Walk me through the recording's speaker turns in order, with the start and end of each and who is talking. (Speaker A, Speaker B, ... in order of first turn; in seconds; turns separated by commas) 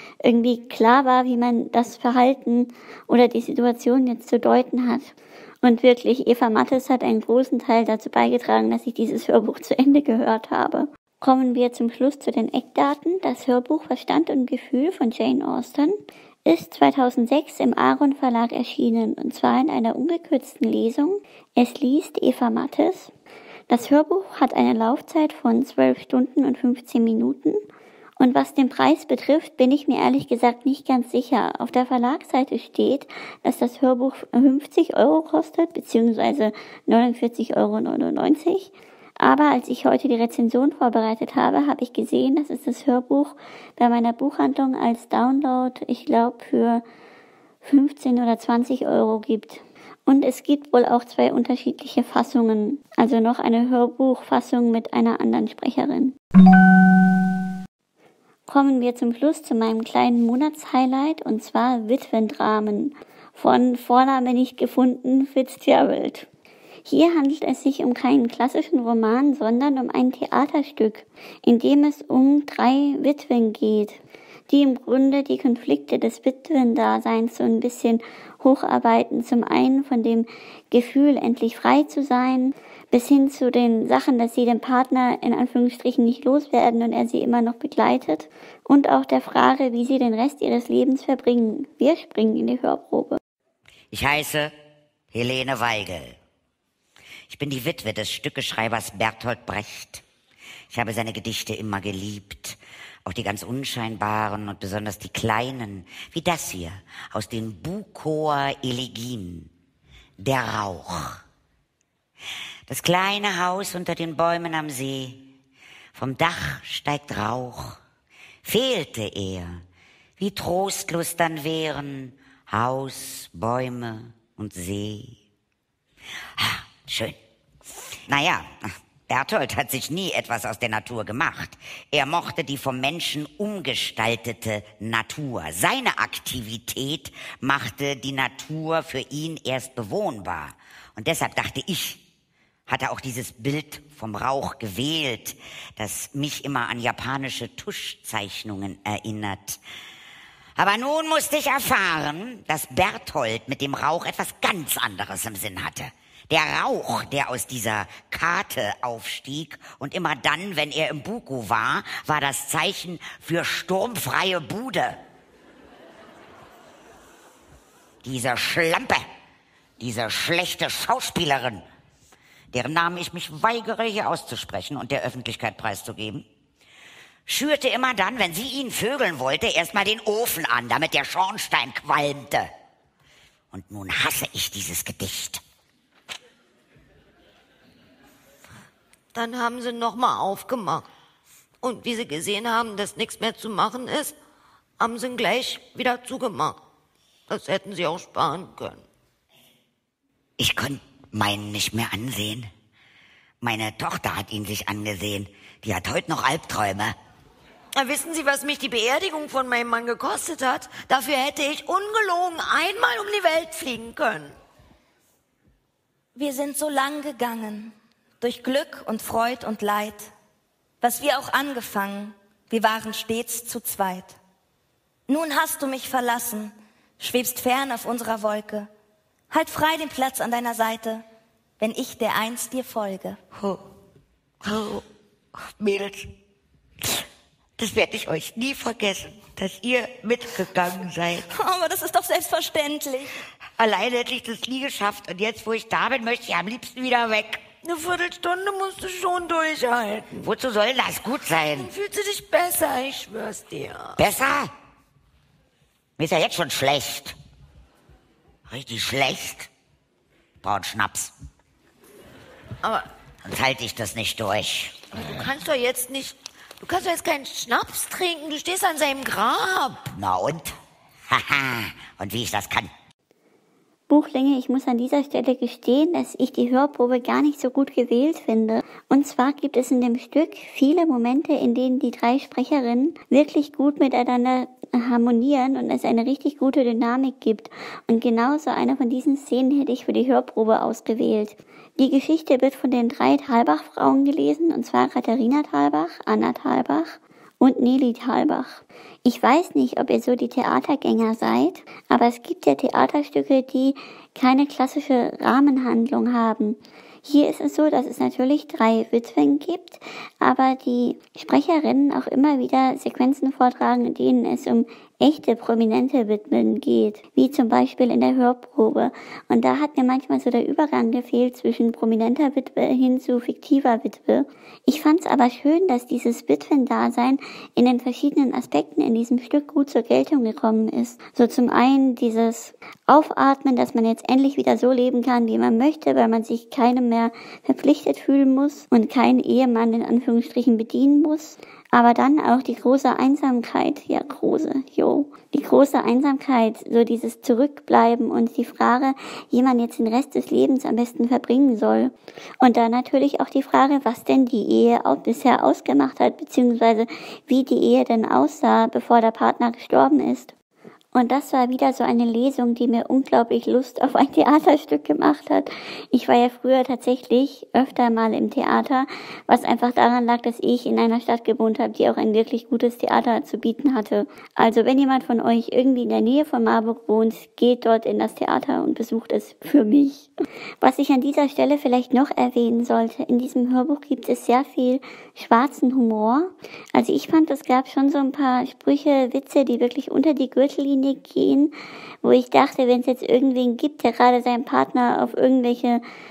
Speaker A: 0.2-23.1, Speaker A: 23.7-27.6, Speaker A: 28.2-46.8, Speaker A: 47.6-56.1, Speaker A: 58.5-66.3, Speaker A: 66.9-93.2, Speaker B: 93.9-94.5, Speaker B: 95.1-96.2, Speaker B: 97.3-100.0, Speaker B: 100.7-109.5, Speaker B: 110.2-111.2, Speaker B: 112.7-115.3, Speaker B: 115.9-117.8, Speaker B: 118.4-119.6, Speaker B: 120.2-125.2, Speaker B: 126.4-127.2, Speaker B: 128.0-142.0, Speaker B: 142.7-149.6, Speaker B: 150.6-165.0, Speaker B: 168.0-169.0, Speaker B: 169.8-171.6, Speaker B: 172.5-176.2, Speaker B: 177.3-182.5, Speaker B: 183.5-185.4, Speaker C: 189.1-190.9, Speaker C: 191.6-194.1, Speaker C: 194.8-196.6, Speaker C: 197.3-198.8, Speaker B: 200.4-202.5, Speaker B: 203.4-206.9, Speaker C: 207.7-214.4, Speaker D: 216.2-220.1, Speaker D: 220.8-224.1, Speaker D: 225.1-228.7, Speaker D: 229.3-231.0, Speaker D: 231.6-233.2, Speaker B: 234.4-234.8, Speaker B: 235.6-236.1, Speaker B: 237.6-241.3, Speaker D: 241.3-243.1, Speaker B: 243.6-247.4, Speaker C: 247.6-250.3, Speaker B: 250.1-251.7, Speaker C: 251.6-254.0, Speaker B: 253.9-254.5, Speaker B: 256.0-257.1, Speaker B: 258.5-259.5, Speaker B: 260.4-261.1, Speaker C: 262.6-262.9, Speaker B: 263.2-264.8, Speaker C: 264.9-269.9, Speaker B: 269.9-270.6, Speaker B: 271.1-272.7, Speaker A: 273.9-360.3, Speaker A: 360.9-395.8